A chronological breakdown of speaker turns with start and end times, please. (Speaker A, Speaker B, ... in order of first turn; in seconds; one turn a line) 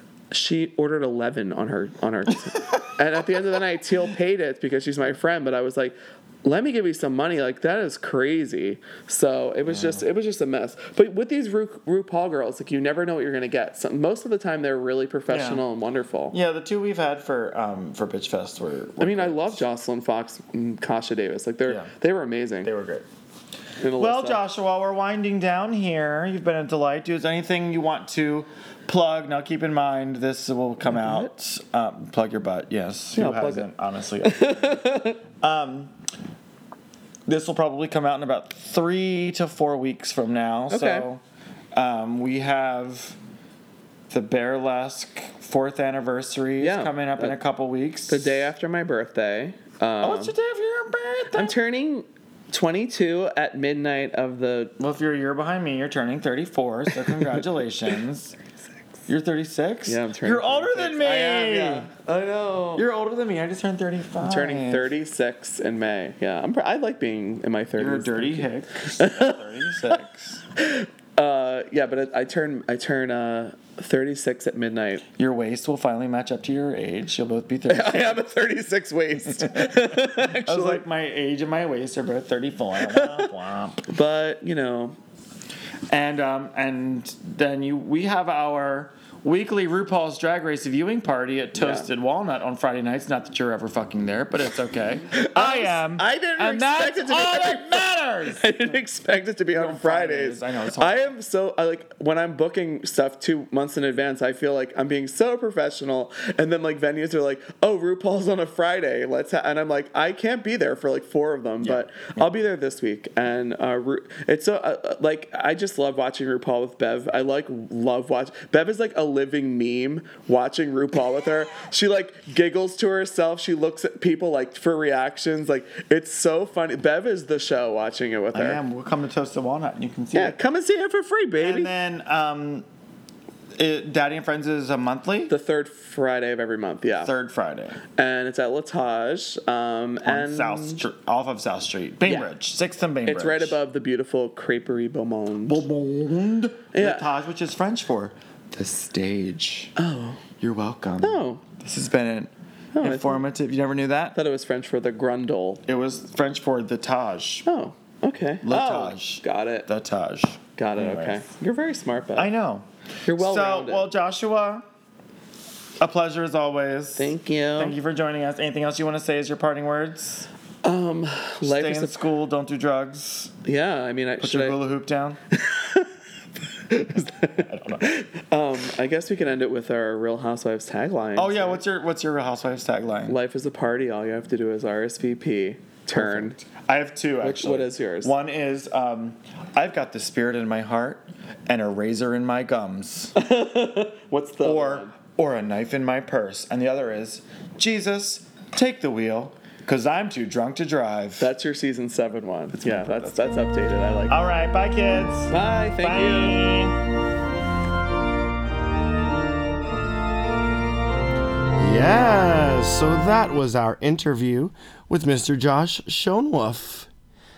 Speaker A: 0.3-16.3
Speaker B: 9.7-10.0
Speaker B: 15.3-15.6
Speaker B: 16.3-19.6
Speaker A: 19.0-22.7
Speaker B: 22.6-23.1
Speaker A: 23.8-24.4
Speaker B: 23.9-36.0
Speaker A: 30.9-31.3
Speaker A: 33.1-33.7
Speaker A: 34.2-35.2
Speaker B: 37.3-41.2
Speaker A: 40.7-41.0
Speaker B: 41.7-43.2
Speaker B: 44.1-48.5
Speaker A: 46.6-47.4
Speaker A: 48.1-50.3
Speaker B: 50.0-51.5
Speaker A: 51.3-54.7
Speaker B: 54.8-58.3
Speaker B: 59.1-61.9
Speaker A: 59.9-62.9
Speaker B: 62.7-64.9
Speaker A: 64.2-70.0
Speaker B: 67.8-70.4
Speaker A: 70.6-75.0
Speaker B: 75.2-78.2
Speaker A: 77.7-80.8
Speaker B: 79.3-83.8
Speaker A: 82.8-83.3
Speaker A: 83.8-85.0
Speaker B: 85.9-98.5
Speaker A: 91.5-91.9
Speaker A: 95.1-128.6
Speaker B: 99.5-101.1
Speaker B: 111.6-112.2
Speaker B: 128.3-130.4
Speaker A: 130.1-131.7
Speaker B: 131.4-132.7
Speaker B: 133.6-135.3
Speaker A: 135.3-137.1
Speaker B: 137.0-137.8
Speaker A: 137.9-140.8
Speaker B: 140.0-143.6
Speaker A: 143.1-145.7
Speaker B: 145.4-149.7
Speaker A: 146.7-147.1
Speaker A: 149.8-150.2
Speaker B: 150.4-154.2
Speaker A: 151.0-151.4
Speaker A: 152.7-153.2
Speaker A: 154.1-155.6
Speaker B: 155.7-157.4
Speaker A: 157.4-159.7
Speaker B: 158.4-161.2
Speaker A: 160.6-162.3
Speaker B: 162.2-164.6
Speaker A: 163.1-163.9
Speaker B: 165.8-170.3
Speaker A: 167.0-167.8
Speaker A: 170.6-172.1
Speaker B: 171.4-173.3
Speaker A: 173.4-174.6
Speaker B: 174.2-175.2
Speaker A: 175.3-175.9
Speaker A: 176.6-181.6
Speaker B: 177.3-177.9
Speaker B: 181.2-183.2
Speaker A: 183.1-186.4
Speaker B: 185.9-193.1
Speaker A: 187.2-188.1
Speaker A: 193.1-194.9
Speaker B: 194.4-201.3
Speaker A: 201.2-204.1
Speaker B: 202.6-203.3
Speaker B: 204.1-206.8
Speaker A: 205.3-206.5
Speaker C: 211.6-216.9